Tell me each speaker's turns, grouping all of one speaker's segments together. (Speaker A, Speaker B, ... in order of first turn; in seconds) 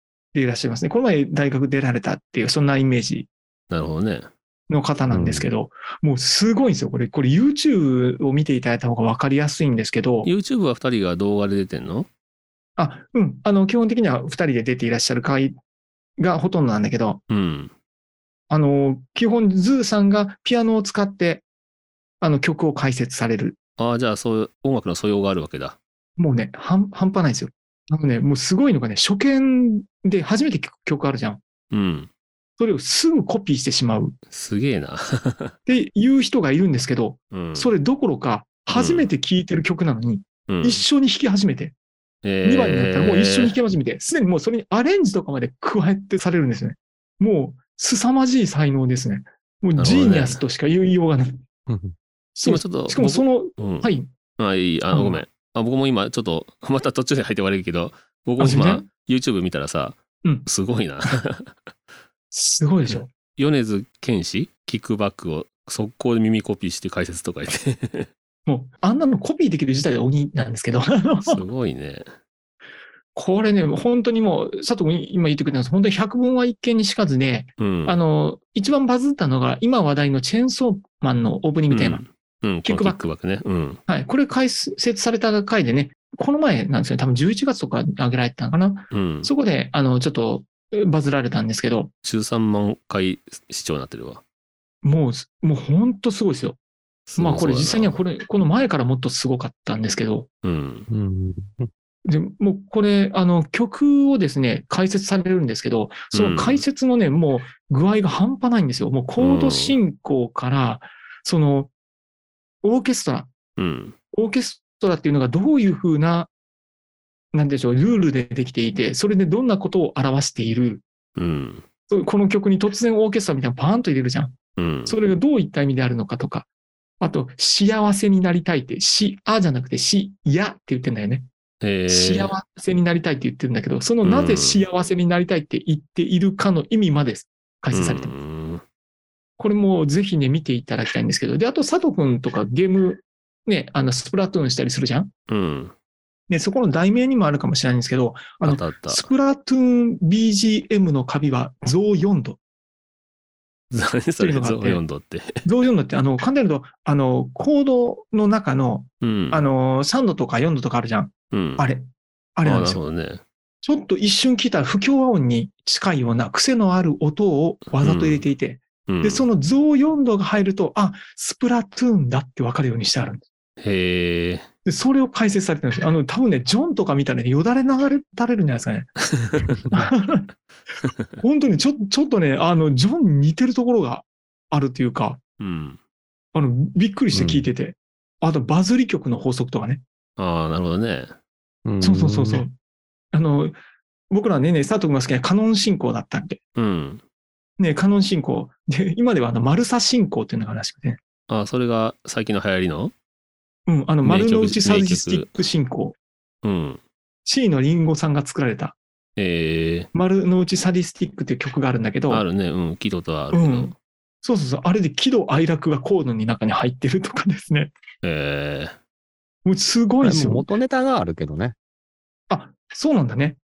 Speaker A: 0.3-3.3, 4.7-10.3, 12.8-15.6, 16.2-17.2, 18.5-21.4, 22.2-23.6, 26.2-31.4, 32.6-34.1, 35.7-41.7, 42.4-51.4, 52.4-54.1, 54.9-55.2, 58.4-58.9, 62.3-63.1, 68.5-71.4, 73.2-82.0, 82.6-83.0, 83.9-91.9, 94.8-96.6, 97.2-100.3, 102.0-111.7, 112.6-113.3, 114.1-116.3, 117.3-120.8, 121.9-124.3, 124.9-126.5, 127.0-131.3, 131.9-138.2, 139.4-145.1, 146.3-152.4, 154.2-154.8, 155.4-162.8, 163.6-173.2, 174.7-178.9, 179.7-180.3, 181.2-185.2, 186.3-189.8, 191.8-192.5, 193.1-193.6, 194.1-196.4, 197.6-201.0, 203.7-206.0, 207.2-208.8, 209.9-212.2, 213.3-217.7, 219.4-220.5, 222.3-223.4
Speaker B: 3.7-4.3, 10.2-12.1, 17.3-17.7, 23.8-25.8, 31.7-32.1, 34.3-35.5, 37.3-37.7, 38.7-39.1, 40.5-40.8, 42.2-43.6, 49.8-50.4, 52.4-61.5, 62.9-68.1, 71.2-72.1, 77.6-78.0, 81.7-83.8, 88.9-89.3, 92.0-94.2, 97.1-98.0, 100.4-100.9, 106.1-106.6, 109.2-109.8, 113.6-114.0, 121.2-121.7, 124.6-125.0, 131.6-132.3, 134.0-134.7, 137.7-138.6, 145.3-145.7, 148.4-149.1, 153.7-155.4, 159.0-159.4, 161.3-161.7, 162.4-163.2, 167.8-168.2, 168.9-169.3, 173.6-174.5, 179.2-179.5, 180.8-181.1, 185.4-185.8, 190.2-191.1, 196.6-197.0, 201.3-202.9, 204.0-205.3, 206.4-206.8, 209.2-209.9, 212.1-213.8, 218.0-218.8
Speaker C: 5.1-5.5, 51.7-52.0, 100.9-101.7, 187.1-187.5, 191.7-192.4, 220.0-221.6